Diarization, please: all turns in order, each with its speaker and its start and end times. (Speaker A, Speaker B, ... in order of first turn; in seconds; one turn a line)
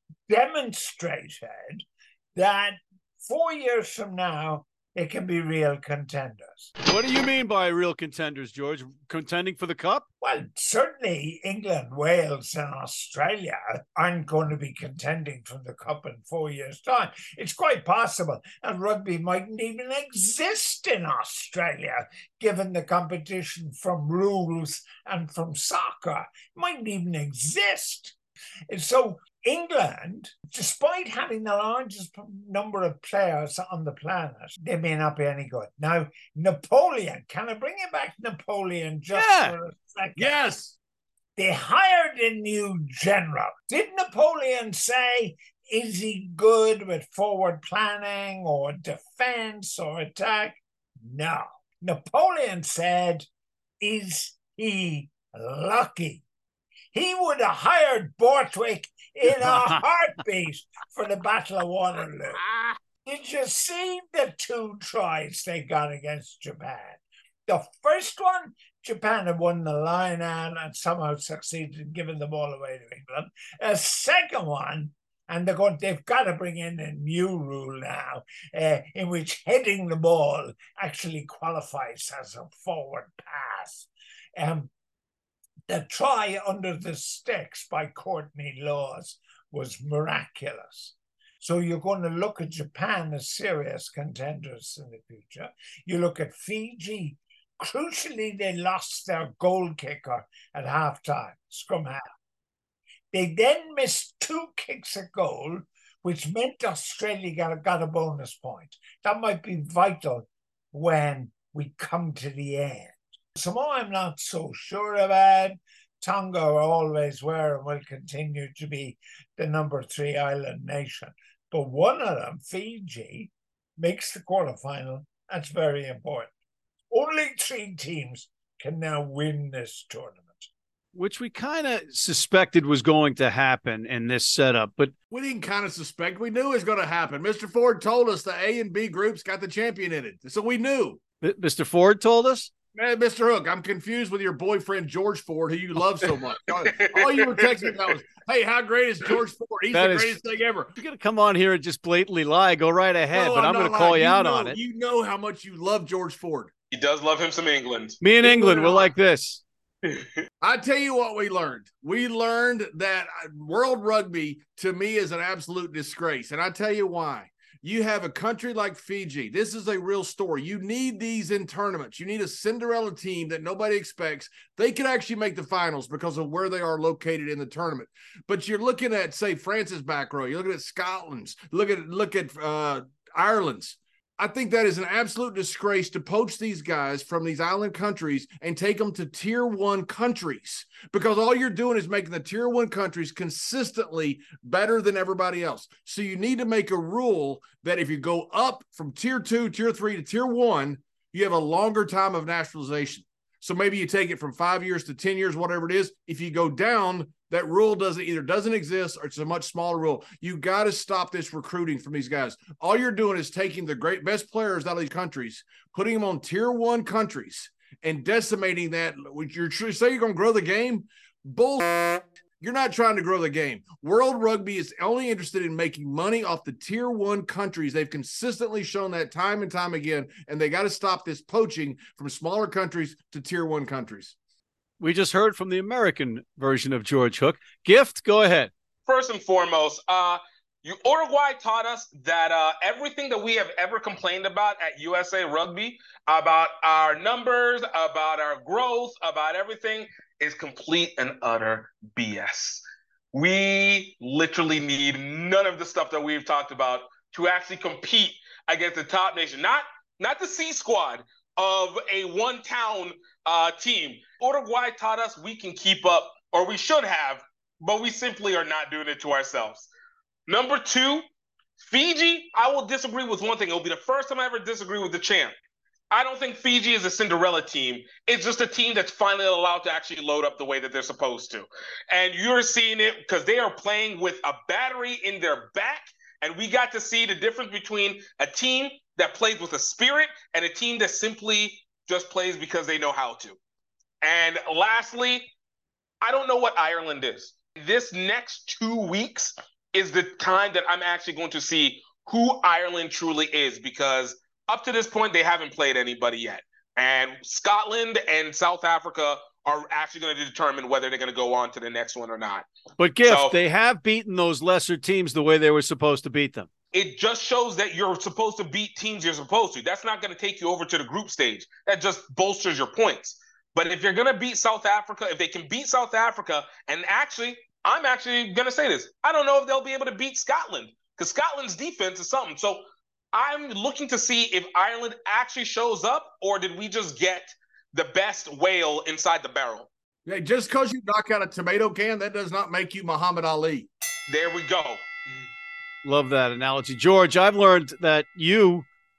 Speaker A: 0.3-6.7
Speaker B: 6.8-10.1
Speaker A: 10.2-28.2
Speaker A: 28.7-40.4
Speaker B: 39.1-39.5
Speaker C: 40.2-40.8
Speaker A: 41.4-53.3
Speaker A: 53.8-56.2
Speaker A: 56.9-62.4
Speaker B: 59.4-59.8
Speaker A: 63.0-84.7
Speaker A: 85.7-102.1
Speaker A: 103.1-126.3
Speaker A: 126.9-130.5
Speaker B: 130.9-134.9
Speaker C: 135.1-141.0
Speaker B: 141.2-142.5
Speaker C: 142.8-150.7
Speaker D: 146.9-147.8
Speaker B: 149.7-150.2
Speaker B: 150.8-154.6
Speaker C: 153.1-156.5
Speaker D: 156.7-158.0
Speaker B: 158.0-159.4
Speaker C: 158.2-158.8
Speaker C: 160.4-234.1
Speaker B: 234.8-238.5
Speaker D: 238.9-269.7
Speaker D: 270.3-271.0
Speaker D: 271.6-275.4
Speaker D: 275.9-293.4
Speaker D: 294.0-295.3
Speaker D: 296.0-312.5
Speaker B: 312.8-316.5
Speaker D: 313.0-313.4
Speaker D: 316.7-339.7
Speaker C: 340.1-343.7
Speaker D: 344.1-344.9
Speaker B: 345.8-348.7